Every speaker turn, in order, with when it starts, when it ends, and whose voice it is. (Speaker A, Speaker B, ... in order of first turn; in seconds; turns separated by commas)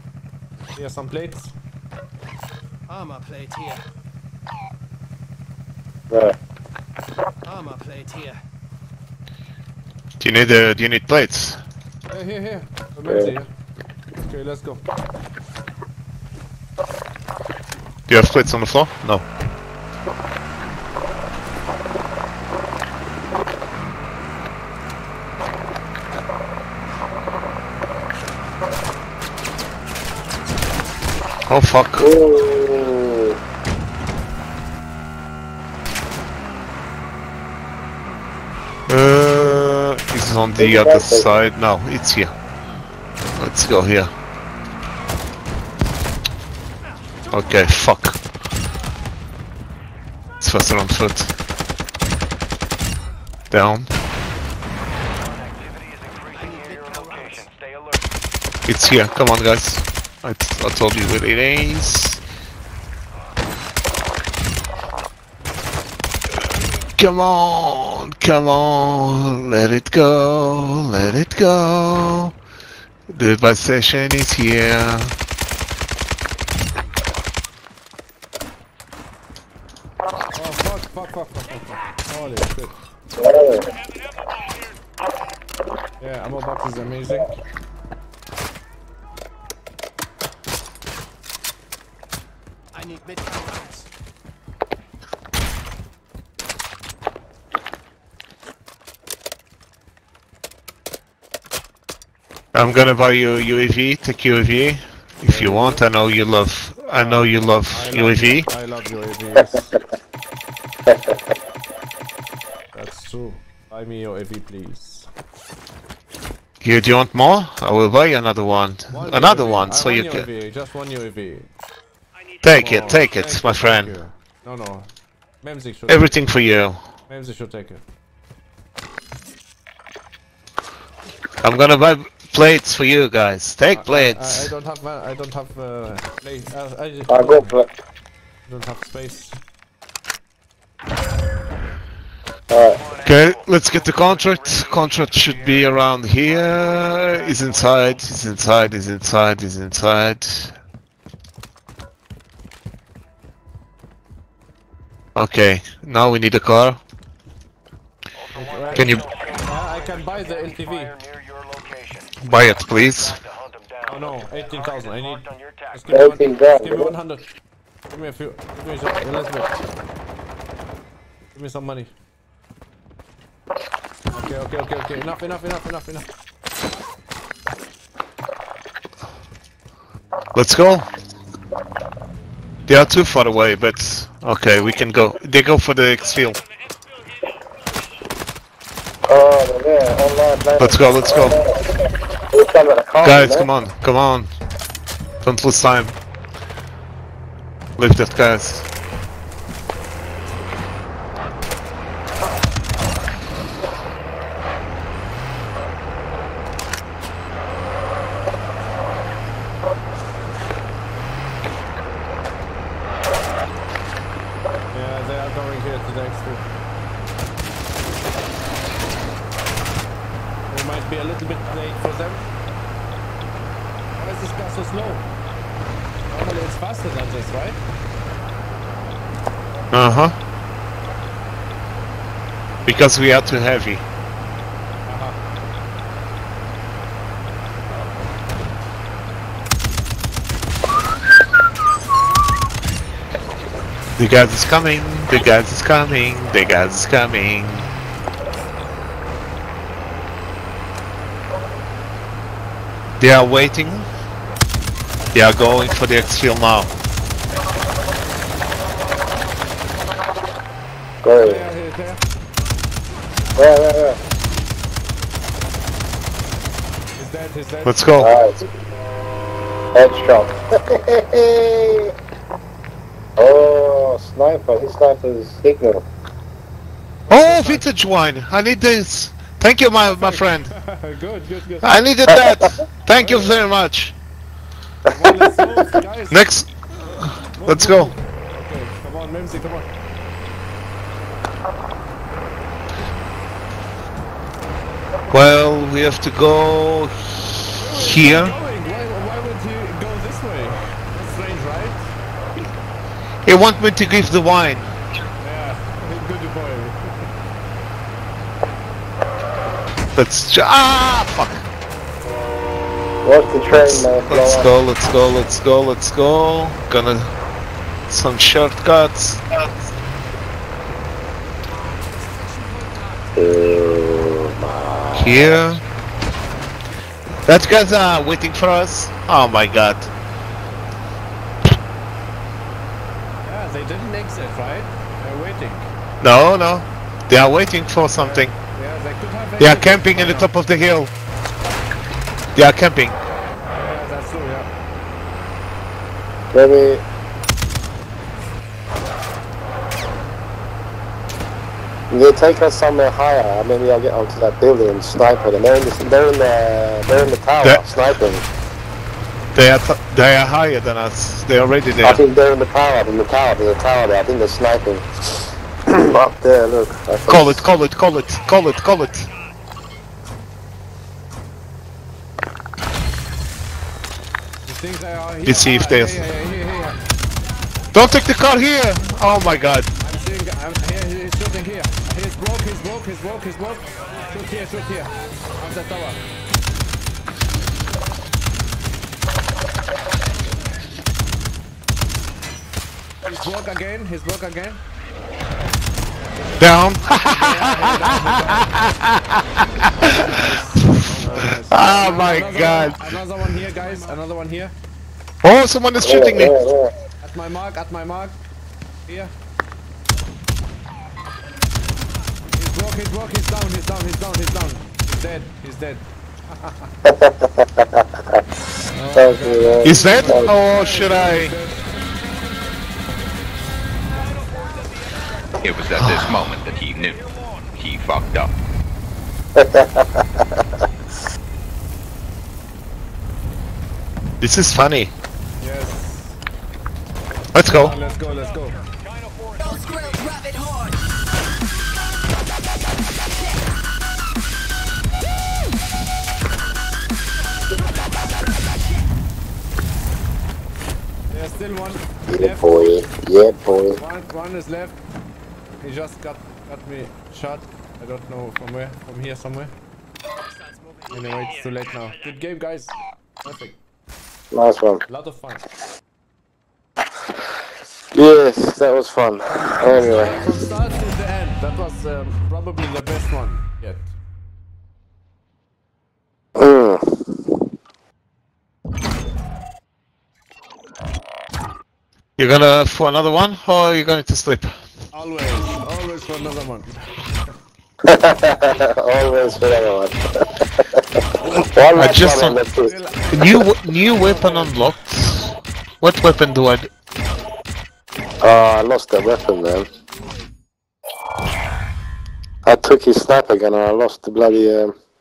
Speaker A: 0.7-1.5, Speaker B: 2.9-3.8, Speaker C: 6.1-6.3, Speaker B: 7.4-8.4, Speaker D: 10.2-11.6, Speaker A: 12.1-13.5, Speaker A: 14.1-14.8, Speaker D: 18.1-19.2, Speaker D: 31.5-32.1, Speaker C: 32.0-33.4, Speaker D: 38.9-42.3, Speaker C: 40.6-41.3, Speaker D: 43.4-44.1, Speaker D: 47.3-48.2, Speaker D: 50.4-51.3, Speaker D: 53.5-53.9, Speaker E: 55.1-58.1, Speaker B: 56.3-57.4, Speaker D: 58.7-62.2, Speaker D: 67.0-72.3, Speaker D: 73.1-75.1, Speaker A: 80.3-82.8, Speaker C: 83.2-83.7, Speaker A: 86.0-87.4, Speaker B: 92.7-93.9, Speaker D: 102.5-108.5, Speaker A: 105.2-105.8, Speaker A: 107.0-109.8, Speaker C: 110.9-111.2, Speaker A: 112.7-115.1, Speaker D: 116.6-120.3, Speaker A: 118.9-121.5, Speaker D: 122.4-123.9, Speaker A: 122.5-124.9, Speaker A: 125.4-126.2, Speaker D: 125.9-126.8, Speaker A: 127.1-127.8, Speaker D: 131.4-134.5, Speaker A: 133.7-137.5, Speaker C: 137.1-137.7, Speaker A: 138.5-139.4, Speaker C: 142.5-142.8, Speaker E: 142.6-148.0, Speaker D: 143.0-150.5, Speaker D: 155.1-156.8, Speaker E: 158.1-165.9, Speaker A: 158.3-160.9, Speaker D: 158.7-159.0, Speaker D: 162.2-163.2, Speaker A: 163.9-167.2, Speaker C: 165.9-166.9, Speaker A: 167.9-169.5, Speaker A: 171.3-171.9, Speaker A: 174.1-176.1, Speaker D: 180.3-180.9, Speaker D: 182.7-186.4, Speaker C: 189.1-191.8, Speaker D: 190.6-191.4, Speaker C: 192.3-193.5, Speaker D: 193.0-194.3, Speaker D: 195.2-195.9, Speaker D: 197.8-198.7, Speaker A: 214.7-216.5, Speaker A: 220.5-222.3, Speaker A: 224.0-225.1, Speaker A: 226.1-227.6, Speaker D: 229.7-230.1, Speaker D: 232.7-233.8, Speaker A: 234.8-235.2, Speaker D: 244.0-247.7, Speaker D: 253.0-253.9, Speaker D: 255.1-256.7, Speaker C: 261.0-261.4, Speaker A: 261.2-262.0, Speaker C: 263.4-264.0, Speaker A: 267.0-268.0, Speaker D: 267.6-268.1, Speaker C: 268.0-268.4, Speaker C: 269.7-271.9, Speaker C: 273.2-275.9, Speaker A: 277.1-277.7, Speaker D: 277.1-280.5, Speaker A: 279.8-281.7, Speaker D: 281.6-283.9, Speaker C: 282.1-282.6, Speaker A: 282.9-283.4, Speaker C: 284.9-285.3, Speaker A: 284.9-286.2, Speaker D: 286.1-287.9, Speaker A: 287.4-289.7, Speaker D: 295.1-298.3, Speaker A: 297.6-301.9, Speaker D: 303.2-304.7, Speaker A: 305.2-307.1, Speaker D: 309.9-311.4, Speaker C: 313.0-314.5, Speaker D: 313.5-317.1, Speaker D: 317.9-319.2, Speaker B: 321.8-323.9, Speaker C: 323.1-325.4, Speaker D: 324.9-325.6, Speaker D: 327.2-329.9, Speaker A: 333.2-335.7, Speaker D: 336.0-338.3, Speaker A: 337.9-340.4, Speaker D: 339.4-340.9, Speaker D: 342.3-342.9, Speaker A: 343.5-344.5, Speaker C: 346.3-346.8, Speaker C: 351.9-358.2, Speaker D: 359.3-362.0, Speaker C: 361.8-364.8, Speaker C: 365.7-367.4, Speaker D: 367.1-369.1, Speaker A: 374.4-376.8, Speaker D: 375.2-376.0, Speaker D: 377.7-379.7, Speaker A: 379.8-386.0, Speaker B: 383.7-384.1, Speaker A: 393.0-394.6, Speaker D: 396.4-400.0, Speaker A: 397.0-398.8, Speaker A: 399.8-404.5, Speaker D: 400.6-402.8, Speaker B: 403.5-404.0, Speaker D: 405.2-406.4, Speaker C: 405.8-406.7, Speaker A: 407.0-408.2, Speaker A: 408.9-409.1, Speaker A: 412.3-416.7, Speaker C: 416.9-418.2, Speaker A: 418.7-421.7, Speaker C: 418.9-420.3, Speaker D: 419.6-421.3, Speaker B: 424.0-424.8, Speaker F: 425.4-427.0, Speaker D: 425.7-426.2, Speaker F: 427.6-428.3, Speaker C: 429.4-430.4, Speaker D: 434.2-434.9, Speaker A: 435.4-436.2, Speaker D: 437.3-437.7, Speaker A: 437.4-438.6, Speaker B: 437.7-438.7, Speaker E: 438.2-440.0, Speaker B: 439.4-440.8, Speaker A: 451.1-452.6, Speaker C: 452.1-453.8, Speaker A: 453.7-454.8, Speaker A: 455.6-459.5, Speaker B: 460.1-461.3, Speaker A: 460.9-463.6, Speaker C: 464.3-464.8, Speaker A: 464.9-465.4, Speaker C: 467.9-470.4, Speaker A: 469.3-473.9, Speaker C: 476.4-476.9, Speaker D: 482.2-484.6, Speaker A: 484.9-487.0, Speaker C: 487.9-490.1, Speaker C: 490.6-493.2, Speaker D: 491.7-492.4, Speaker A: 492.3-494.6, Speaker D: 493.1-496.7, Speaker C: 498.2-499.7, Speaker C: 502.4-504.7